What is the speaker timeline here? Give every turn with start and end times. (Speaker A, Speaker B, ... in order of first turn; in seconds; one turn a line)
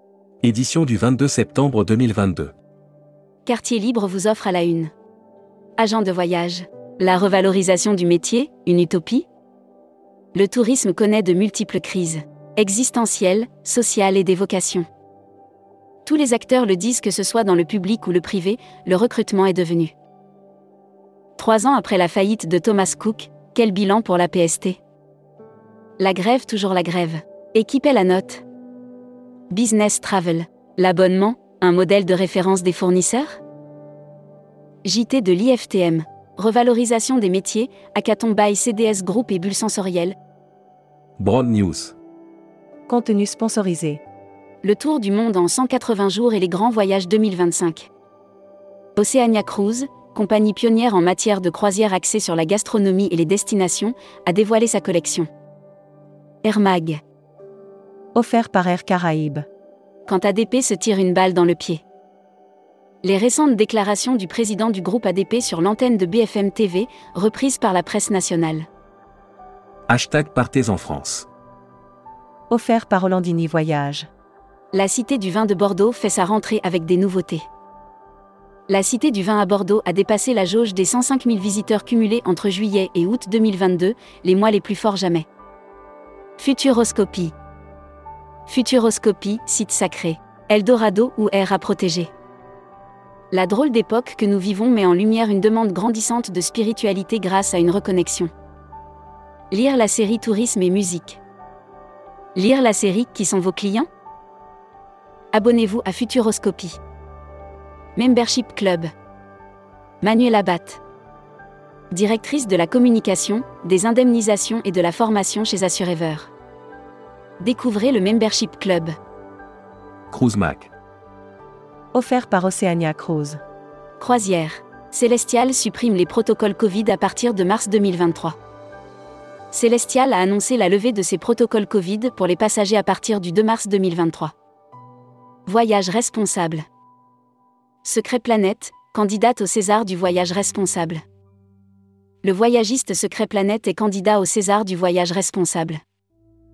Speaker A: 0.4-2.5
Speaker B: 3.5-4.9
Speaker B: 5.8-9.3
Speaker B: 10.3-14.9
Speaker B: 16.1-19.9
Speaker B: 21.4-24.8
Speaker B: 26.0-28.4
Speaker B: 29.5-33.4
Speaker B: 34.8-40.2
Speaker A: 41.2-42.0
Speaker C: 42.9-44.0
Speaker B: 44.6-47.9
Speaker B: 49.0-55.3
Speaker B: 56.4-57.0
Speaker C: 58.1-59.5
Speaker B: 60.1-61.8
Speaker B: 63.0-68.7
Speaker A: 69.9-71.3
Speaker C: 72.5-74.1
Speaker B: 74.7-77.5
Speaker B: 78.7-85.3
Speaker B: 86.4-87.3
Speaker B: 88.5-92.1
Speaker B: 93.3-98.3
Speaker B: 99.5-101.2
Speaker B: 102.3-103.9
Speaker B: 105.3-106.8
Speaker B: 108.0-108.9
Speaker B: 110.0-110.8
Speaker B: 111.9-116.3
Speaker B: 117.4-118.9
Speaker A: 120.1-120.7
Speaker C: 121.9-123.4
Speaker B: 124.0-128.4
Speaker B: 129.5-134.3
Speaker B: 135.5-136.6
Speaker B: 137.8-141.0
Speaker B: 142.2-145.8